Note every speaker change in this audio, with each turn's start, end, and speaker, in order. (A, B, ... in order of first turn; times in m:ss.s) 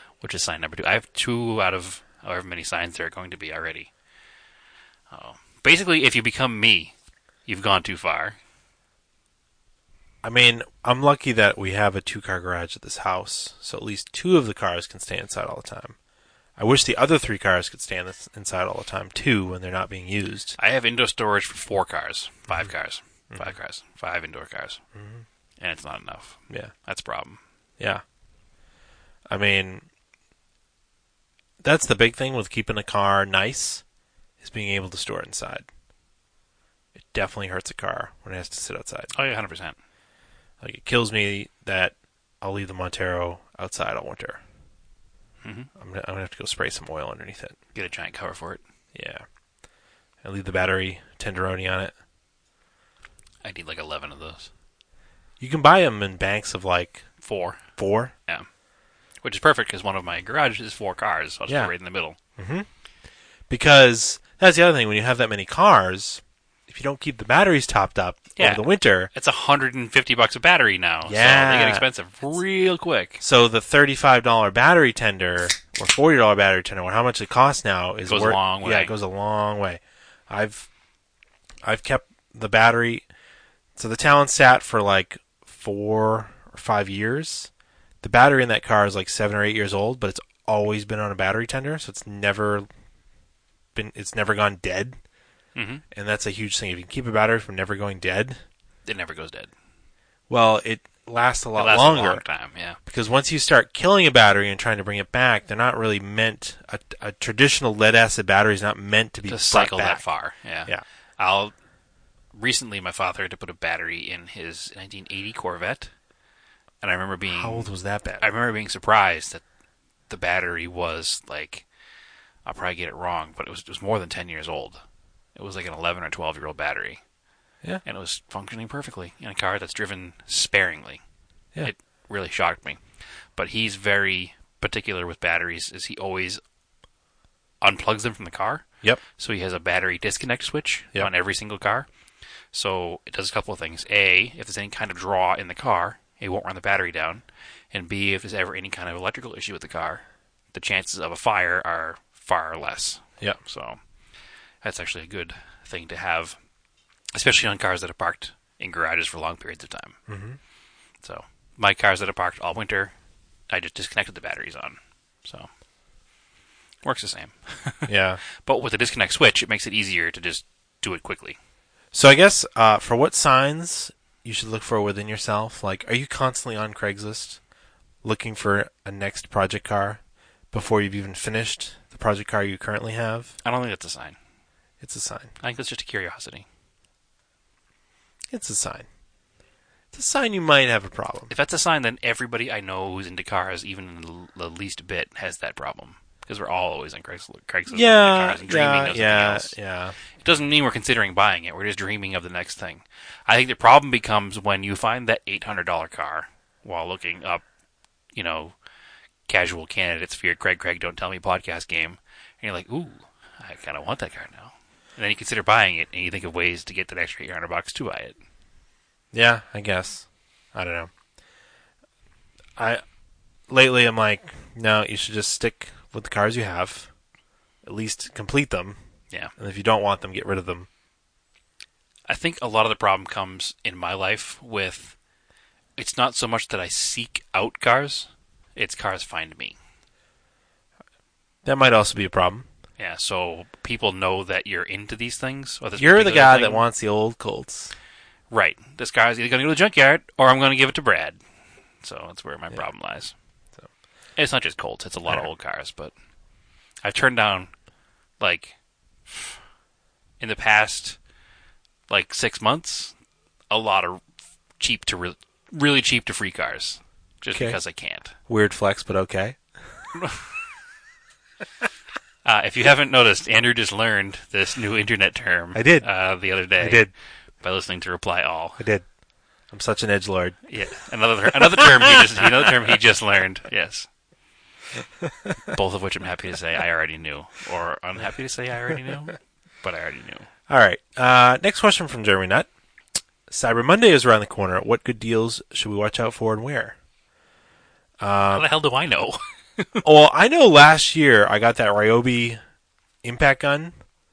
0:00.2-0:03.9 A
0:05.1-0:06.9 A
0:07.5-0:08.4 A
0:10.2-0:16.0 B
0:16.6-0:20.6 B
0:20.6-0:24.8 A
0:25.0-0:25.2 B
0:25.6-0:27.4 A
0:29.3-0:29.9 B
0:31.6-0:33.8 B
0:34.4-0:35.7 B
0:37.0-0:39.1 B
0:39.1-0:39.8 A
0:40.6-0:44.4 B
0:45.4-0:45.7 A
0:45.8-0:47.6 B
0:47.8-0:48.6 A
0:48.9-0:49.2 B
0:50.2-0:51.9 B
0:53.4-0:54.5 A
0:55.4-0:57.0 B
0:57.2-0:57.6 A
0:57.8-0:58.1 B
0:59.2-1:02.2 A
1:02.4-1:02.7 B
1:03.5-1:09.1 B
1:08.4-1:13.2 A
1:11.0-1:11.9 B
1:13.2-1:20.7 B
1:18.1-1:18.9 A
1:21.6-1:23.0 B
1:23.8-1:27.5 B
1:28.0-1:32.7 B
1:33.8-1:35.0 B
1:35.6-1:35.8 A
1:35.9-1:38.4 B
1:38.9-1:39.5 A
1:40.3-1:42.2 B
1:41.6-1:42.8 A
1:42.9-1:50.0 B
1:49.3-1:51.5 A
1:52.3-1:55.9 A
1:56.8-1:59.4 A
1:57.3-1:58.3 B
2:00.1-2:01.6 A
2:02.4-2:04.8 A
2:05.4-2:07.0 A
2:07.8-2:11.0 A
2:11.6-2:12.8 A
2:13.4-2:16.4 A
2:17.6-2:18.6 A
2:19.2-2:21.9 A
2:22.5-2:33.8 A
2:34.6-2:36.4 A
2:37.1-2:40.0 A
2:40.1-2:40.4 B
2:41.0-2:42.9 A
2:43.5-2:45.5 A
2:46.8-2:51.4 A
2:47.9-2:48.2 B
2:51.9-2:57.4 B
2:58.0-3:00.0 B
3:00.5-3:03.4 B
3:03.4-3:04.2 A
3:04.8-3:05.3 B
3:05.4-3:06.4 A
3:08.3-3:08.9 B
3:09.9-3:11.3 B
3:11.3-3:19.5 A
3:17.7-3:20.0 B
3:20.2-3:27.4 A
3:28.1-3:28.6 A
3:29.3-3:38.2 A
3:39.1-3:40.9 B
3:42.6-3:42.8 B
3:43.5-3:46.9 B
3:47.6-3:48.8 B
3:49.4-3:50.7 B
3:52.1-3:55.0 A
3:55.8-3:59.6 A
4:01.4-4:02.5 B
4:02.8-4:06.6 A
4:05.8-4:07.7 B
4:08.3-4:11.2 A
4:11.8-4:13.1 A
4:14.2-4:15.9 A
4:16.8-4:17.5 A
4:18.2-4:18.6 A
4:20.2-4:21.0 A
4:21.9-4:22.9 A
4:23.5-4:24.0 A
4:24.6-4:28.2 A
4:27.3-4:27.6 B
4:28.3-4:29.4 B
4:30.0-4:30.3 A
4:32.2-4:36.9 A
4:35.5-4:35.9 B
4:36.6-4:36.9 B
4:37.4-4:38.6 A
4:38.6-4:38.8 B
4:39.5-4:40.4 B
4:40.5-4:43.9 A
4:41.4-4:42.6 B
4:45.0-4:45.6 B
4:45.5-4:50.3 A
4:50.5-4:52.5 B
4:53.3-4:56.8 B
4:58.0-4:58.5 B
4:58.3-4:59.8 A
4:59.8-5:02.4 B
5:03.0-5:03.7 B